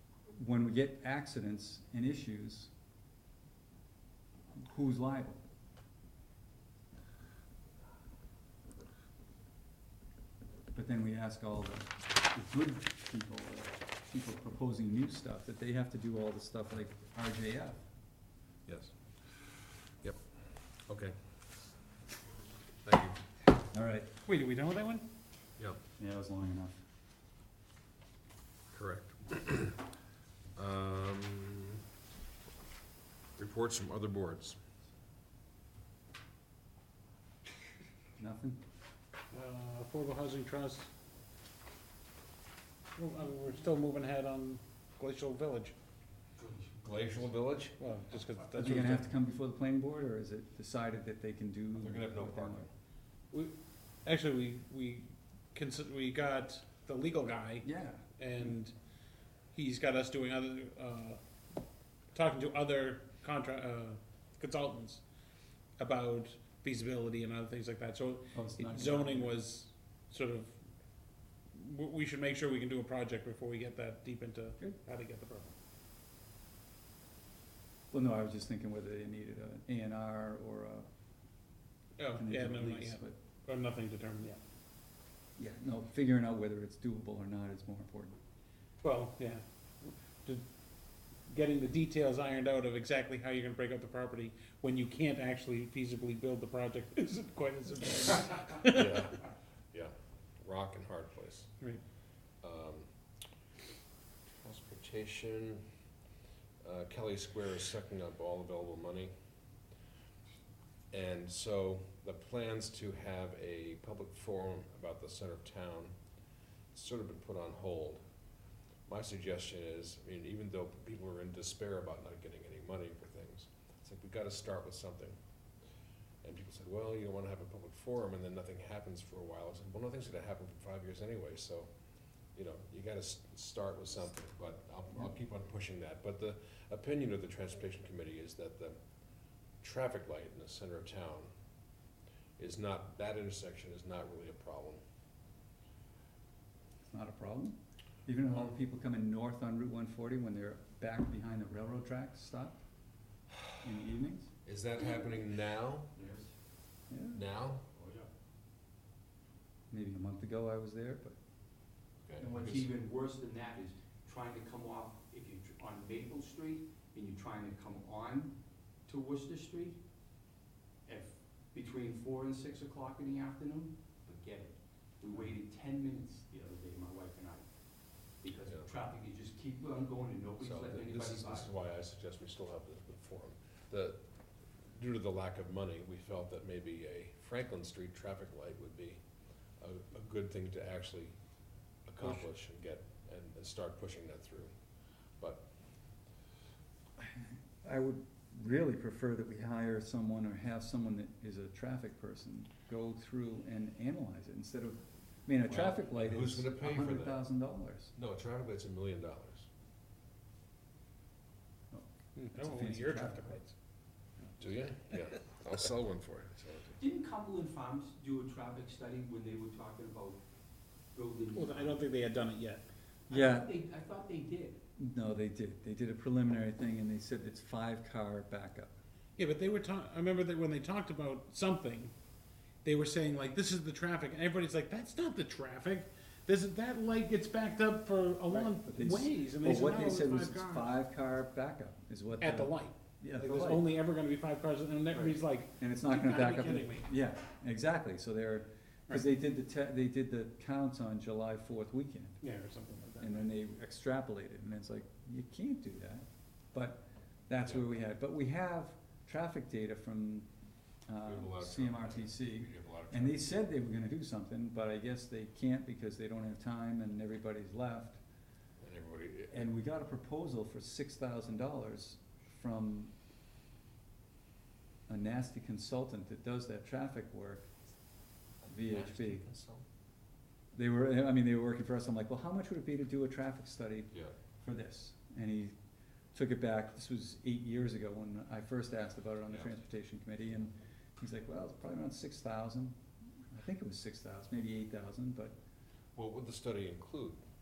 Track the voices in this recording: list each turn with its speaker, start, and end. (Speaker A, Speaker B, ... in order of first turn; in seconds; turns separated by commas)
Speaker A: 0.3-2.7, Speaker A: 4.6-5.4, Speaker A: 10.7-17.8, Speaker B: 18.7-20.2, Speaker B: 20.9-21.2, Speaker B: 22.8-23.2, Speaker A: 23.7-24.1, Speaker C: 24.2-25.1, Speaker A: 26.0-26.8, Speaker B: 28.7-29.9, Speaker B: 30.6-31.8, Speaker B: 33.4-34.6, Speaker A: 38.2-38.6, Speaker C: 39.3-40.9, Speaker C: 43.0-45.8, Speaker D: 46.4-46.8, Speaker B: 46.8-47.8, Speaker C: 47.8-49.1, Speaker A: 48.5-52.7, Speaker B: 51.8-52.7, Speaker C: 53.3-58.7, Speaker A: 57.6-58.1, Speaker C: 59.5-61.2, Speaker C: 62.1-65.0, Speaker C: 65.8-70.5, Speaker A: 68.3-69.3, Speaker C: 71.5-75.5, Speaker A: 77.9-80.9, Speaker C: 82.0-84.4, Speaker A: 82.1-83.2, Speaker A: 85.4-88.2, Speaker C: 88.8-90.5, Speaker C: 91.3-99.0, Speaker B: 98.7-101.5, Speaker B: 102.4-102.9, Speaker B: 104.4-105.7, Speaker B: 106.6-109.1, Speaker B: 110.9-116.0, Speaker B: 116.7-118.0, Speaker B: 118.9-125.2, Speaker B: 126.2-131.7, Speaker B: 132.3-138.8, Speaker B: 139.6-141.3, Speaker B: 142.4-144.8, Speaker A: 146.9-152.6, Speaker A: 153.6-154.3, Speaker B: 154.4-155.9, Speaker D: 156.0-156.3, Speaker A: 156.9-157.2, Speaker B: 157.1-157.6, Speaker D: 157.8-158.1, Speaker A: 159.7-161.2, Speaker B: 162.1-162.7, Speaker D: 162.2-169.8, Speaker D: 170.9-177.5, Speaker D: 178.2-181.5, Speaker B: 180.4-184.0, Speaker B: 184.6-189.0, Speaker B: 189.6-191.1, Speaker B: 191.9-194.5, Speaker B: 195.2-195.4, Speaker A: 197.0-207.9, Speaker B: 205.5-207.2, Speaker B: 207.9-209.5, Speaker A: 211.7-213.4, Speaker C: 212.2-213.5, Speaker B: 214.4-216.8, Speaker D: 216.8-220.2, Speaker D: 220.9-221.9, Speaker C: 221.3-222.6, Speaker D: 223.1-224.6, Speaker A: 223.1-223.6, Speaker A: 224.8-228.7, Speaker C: 229.2-231.9, Speaker C: 232.6-240.8, Speaker A: 238.3-243.7, Speaker C: 242.2-246.9, Speaker A: 244.9-252.2, Speaker C: 252.2-253.2, Speaker A: 253.0-260.3, Speaker A: 260.9-268.0, Speaker B: 261.0-263.3, Speaker B: 268.6-269.5, Speaker A: 269.3-272.9, Speaker A: 274.9-277.5, Speaker B: 278.4-279.6, Speaker A: 278.5-279.2, Speaker A: 280.5-285.6, Speaker A: 286.1-292.8, Speaker A: 293.3-295.4, Speaker B: 296.0-297.2